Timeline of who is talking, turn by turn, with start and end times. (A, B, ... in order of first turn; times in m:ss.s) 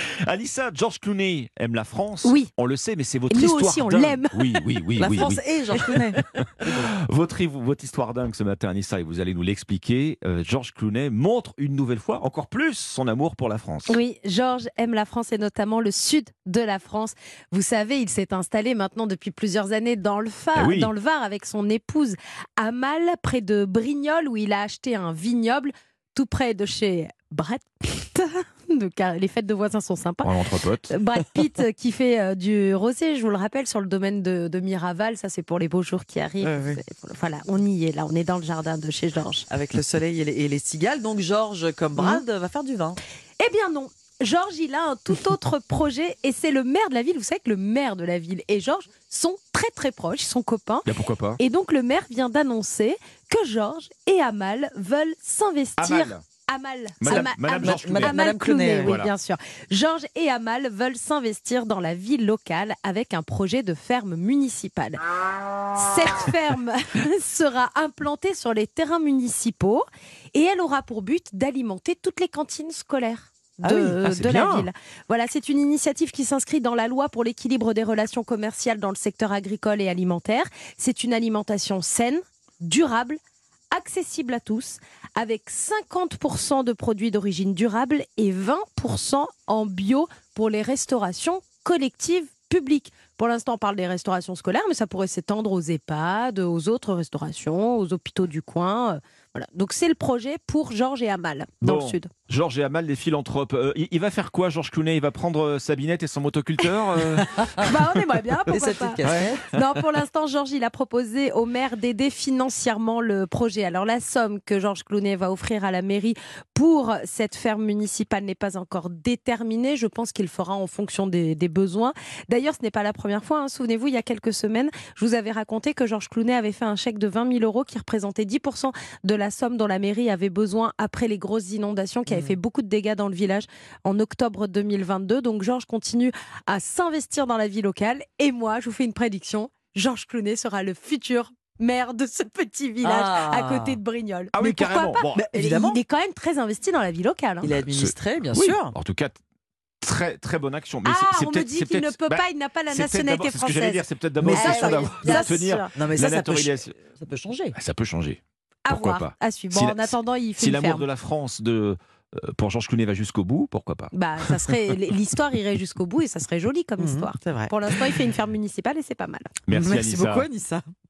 0:00.2-0:14.0 A
0:02.2-0:02.5 B
0:03.3-0:04.7 B
0:05.0-0:06.8 C
0:13.9-0:30.4 B
0:20.6-0:20.9 A
0:30.2-0:31.0 A
0:30.9-0:39.5 B
0:36.4-0:36.8 C
0:39.5-0:43.0 C
0:42.0-0:42.2 B
0:43.4-1:05.0 B
0:50.9-0:51.4 A
0:55.8-0:56.2 A
0:57.0-0:58.2 A
0:57.1-0:59.0 C
0:58.8-0:59.1 A
1:05.7-1:23.2 B
1:13.6-1:14.7 C
1:23.7-1:42.1 B
1:41.6-1:47.7 A
1:47.2-1:47.5 C
1:47.6-2:27.5 B
1:48.5-1:49.5 C
1:49.1-1:49.6 A
2:12.1-2:12.4 C
2:22.8-2:23.8 C
2:24.3-2:25.2 A
2:25.1-2:25.8 C
2:27.4-2:28.7 C
2:27.6-2:29.2 A
2:29.8-2:36.7 A
2:30.8-2:35.8 B
2:34.2-2:37.6 C
2:37.6-2:44.8 A
2:38.7-2:40.9 B
2:43.9-2:49.4 B
2:46.8-2:47.9 C
2:49.5-2:50.3 A
2:49.5-2:50.6 C